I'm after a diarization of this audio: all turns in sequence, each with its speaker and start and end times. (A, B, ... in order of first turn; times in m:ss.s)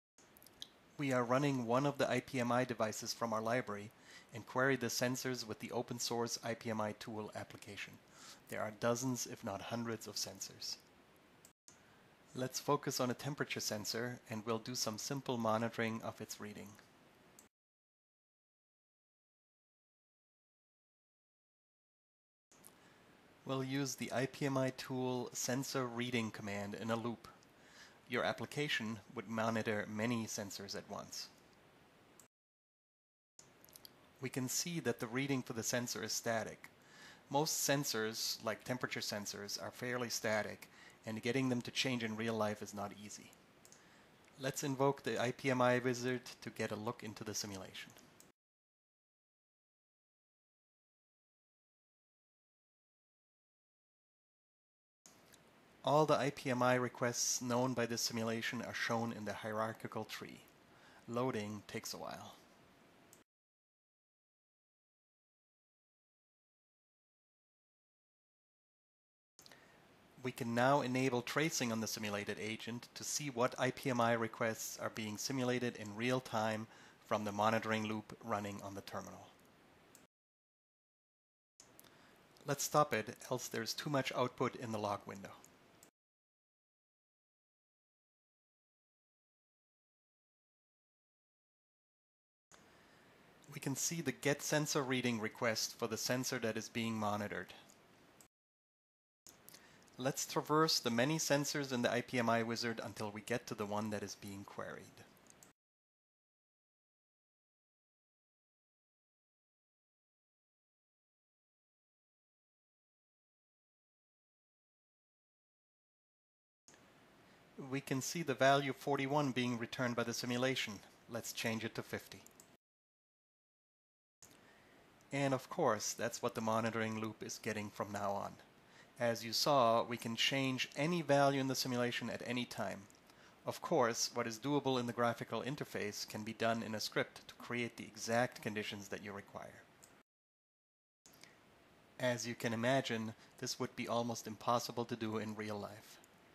0:01.0-0:10.8 A
0:12.3-0:16.8 A
0:23.4-0:27.3 A
0:28.1-0:31.3 A
0:34.2-0:36.7 A
0:37.3-0:43.3 A
0:44.4-0:48.0 A
0:55.8-1:00.5 A
1:01.1-1:02.4 A
1:10.2-1:19.3 A
1:22.4-1:25.4 A
1:33.5-1:37.6 A
1:40.0-1:45.1 A
1:57.6-2:02.3 A
2:05.1-2:08.4 A
2:09.0-2:12.9 A
2:13.4-2:19.6 A
2:22.0-2:26.0 A